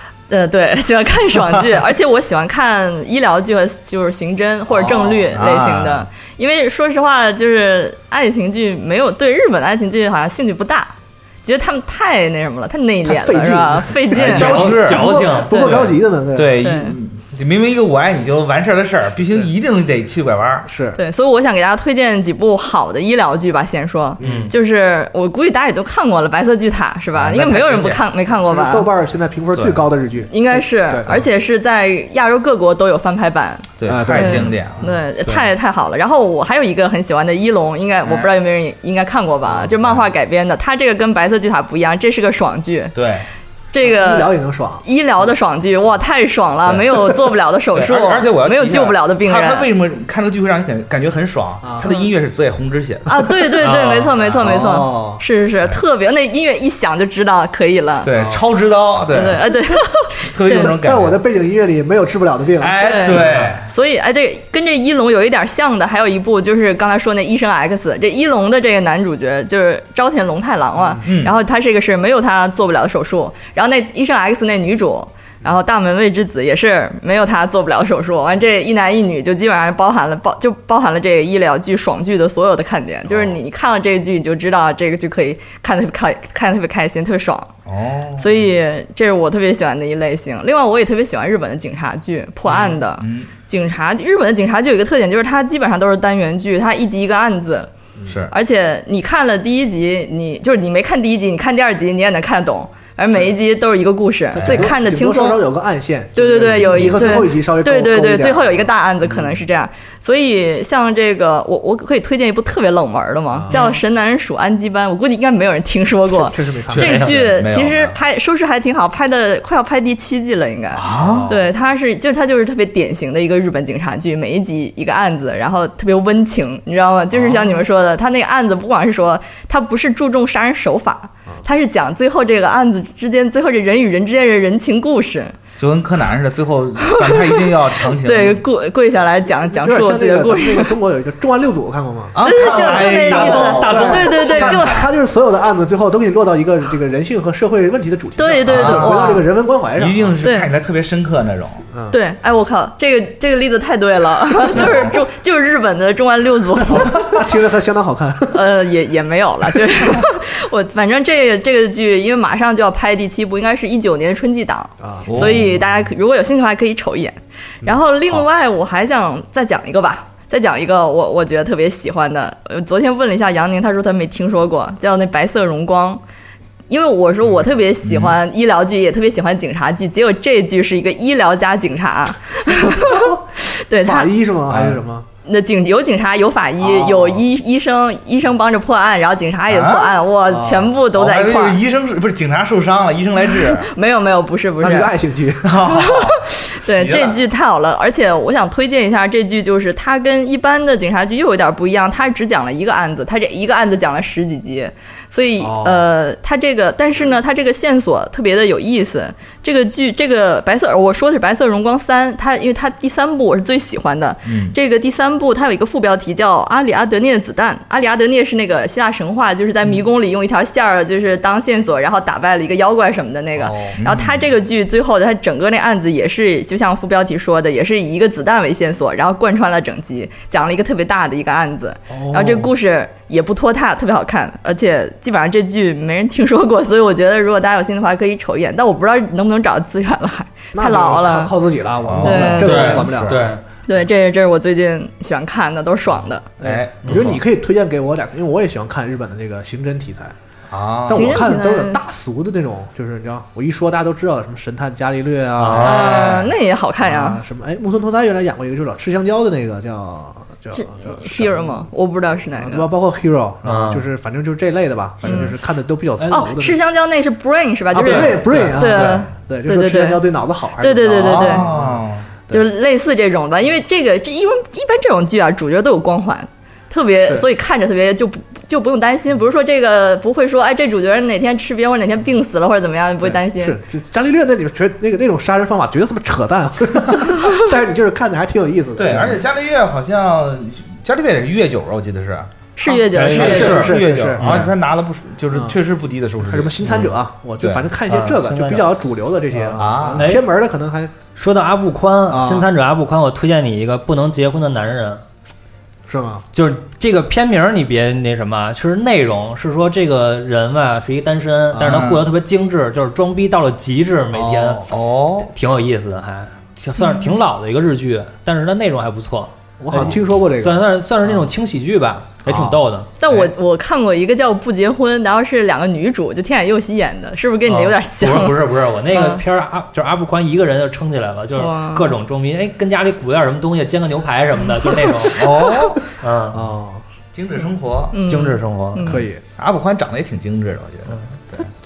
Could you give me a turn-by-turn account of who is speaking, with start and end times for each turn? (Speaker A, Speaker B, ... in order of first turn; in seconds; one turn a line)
Speaker A: 0.3-14.6
Speaker B: 4.8-6.1
Speaker C: 13.0-16.6
Speaker B: 14.1-20.7
Speaker D: 14.2-15.7
Speaker A: 16.6-16.9
Speaker C: 19.2-19.5
Speaker C: 20.6-21.0
Speaker A: 20.9-28.9
Speaker C: 24.2-24.5
Speaker D: 24.2-24.5
Speaker B: 27.1-27.9
Speaker C: 27.7-31.3
Speaker B: 29.5-29.8
Speaker A: 30.3-43.0
Speaker B: 33.8-34.9
Speaker C: 33.9-35.4
Speaker B: 38.0-38.3
Speaker B: 39.5-40.0
Speaker B: 42.9-43.3
Speaker A: 43.7-44.3
Speaker C: 43.8-44.8
Speaker A: 44.8-49.7
Speaker B: 47.7-53.4
Speaker C: 51.6-51.9
Speaker A: 51.8-52.1
Speaker A: 53.1-58.1
Speaker D: 53.6-54.1
Speaker C: 54.4-55.2
Speaker B: 58.0-59.5
Speaker C: 58.1-58.4
Speaker A: 59.1-60.7
Speaker B: 60.3-61.2
Speaker C: 60.5-63.4
Speaker B: 62.6-63.7
Speaker A: 62.8-87.5
Speaker C: 70.8-71.0
Speaker B: 71.0-71.3
Speaker B: 87.7-88.5
Speaker A: 88.2-97.7
Speaker B: 92.5-93.3
Speaker B: 98.0-98.3
Speaker A: 98.3-105.4
Speaker C: 104.3-109.4
Speaker A: 106.2-135.3
Speaker C: 113.3-113.7
Speaker C: 116.1-117.0
Speaker B: 116.7-118.0
Speaker D: 116.8-117.2
Speaker B: 120.7-121.3
Speaker C: 120.9-121.5
Speaker C: 127.1-127.6
Speaker B: 135.6-138.4
Speaker A: 136.9-140.7
Speaker C: 139.5-150.2
Speaker B: 142.1-144.0
Speaker A: 142.2-144.9
Speaker D: 142.7-144.5
Speaker A: 148.2-149.2
Speaker B: 148.5-149.2
Speaker B: 149.8-151.7
Speaker A: 150.2-150.5
Speaker C: 151.7-152.0
Speaker A: 151.9-157.1
Speaker B: 154.5-154.9
Speaker C: 156.8-158.5
Speaker A: 158.3-176.0
Speaker C: 164.8-165.3
Speaker B: 165.1-165.6
Speaker C: 167.6-168.2
Speaker A: 176.7-184.1
Speaker B: 177.8-178.2
Speaker C: 182.7-183.1
Speaker C: 183.8-185.1
Speaker B: 184.5-184.8
Speaker A: 185.2-191.6
Speaker C: 186.6-187.2
Speaker B: 189.5-189.9
Speaker C: 190.3-190.8
Speaker B: 190.9-193.7
Speaker A: 193.3-194.9
Speaker C: 194.6-195.6
Speaker B: 195.4-197.2
Speaker A: 195.7-241.3
Speaker C: 205.4-205.8
Speaker B: 214.2-214.6
Speaker C: 223.4-223.8
Speaker B: 223.8-224.2
Speaker B: 231.9-232.4
Speaker C: 240.5-243.3
Speaker B: 241.8-243.2
Speaker A: 242.0-242.8
Speaker D: 242.1-243.4
Speaker A: 243.7-246.3
Speaker B: 246.4-247.2
Speaker C: 246.4-250.1
Speaker D: 246.8-247.1
Speaker B: 250.5-251.2
Speaker C: 250.8-256.2
Speaker A: 250.9-251.8
Speaker D: 255.4-256.1
Speaker A: 255.6-257.2
Speaker B: 255.8-256.3
Speaker C: 256.8-261.7
Speaker A: 260.5-262.7
Speaker C: 262.4-266.6
Speaker D: 263.4-263.9
Speaker A: 265.0-265.3
Speaker A: 266.1-270.0
Speaker C: 267.7-272.4
Speaker D: 268.2-268.9
Speaker A: 270.6-271.4
Speaker B: 271.0-272.1
Speaker A: 272.3-283.6
Speaker C: 276.9-277.3
Speaker C: 283.0-289.2
Speaker B: 288.8-292.3
Speaker A: 292.6-293.7
Speaker C: 292.7-294.5
Speaker D: 292.9-294.5
Speaker B: 293.1-296.6
Speaker C: 295.3-295.6
Speaker C: 296.2-300.9
Speaker B: 297.4-297.6
Speaker D: 297.9-298.7
Speaker B: 299.5-300.2
Speaker D: 299.9-300.2
Speaker D: 301.1-305.0
Speaker C: 302.1-302.5
Speaker C: 305.9-306.2
Speaker D: 306.3-314.6
Speaker B: 311.6-312.1
Speaker B: 314.3-315.3
Speaker D: 315.2-323.2
Speaker A: 316.8-317.1
Speaker C: 319.6-320.6
Speaker A: 323.0-329.2
Speaker D: 327.4-335.5
Speaker A: 331.4-331.9
Speaker B: 335.1-335.8
Speaker D: 336.0-336.4
Speaker C: 336.3-336.8
Speaker B: 337.1-338.0
Speaker A: 337.9-339.0
Speaker D: 338.1-338.9
Speaker C: 338.8-339.2
Speaker B: 339.4-341.5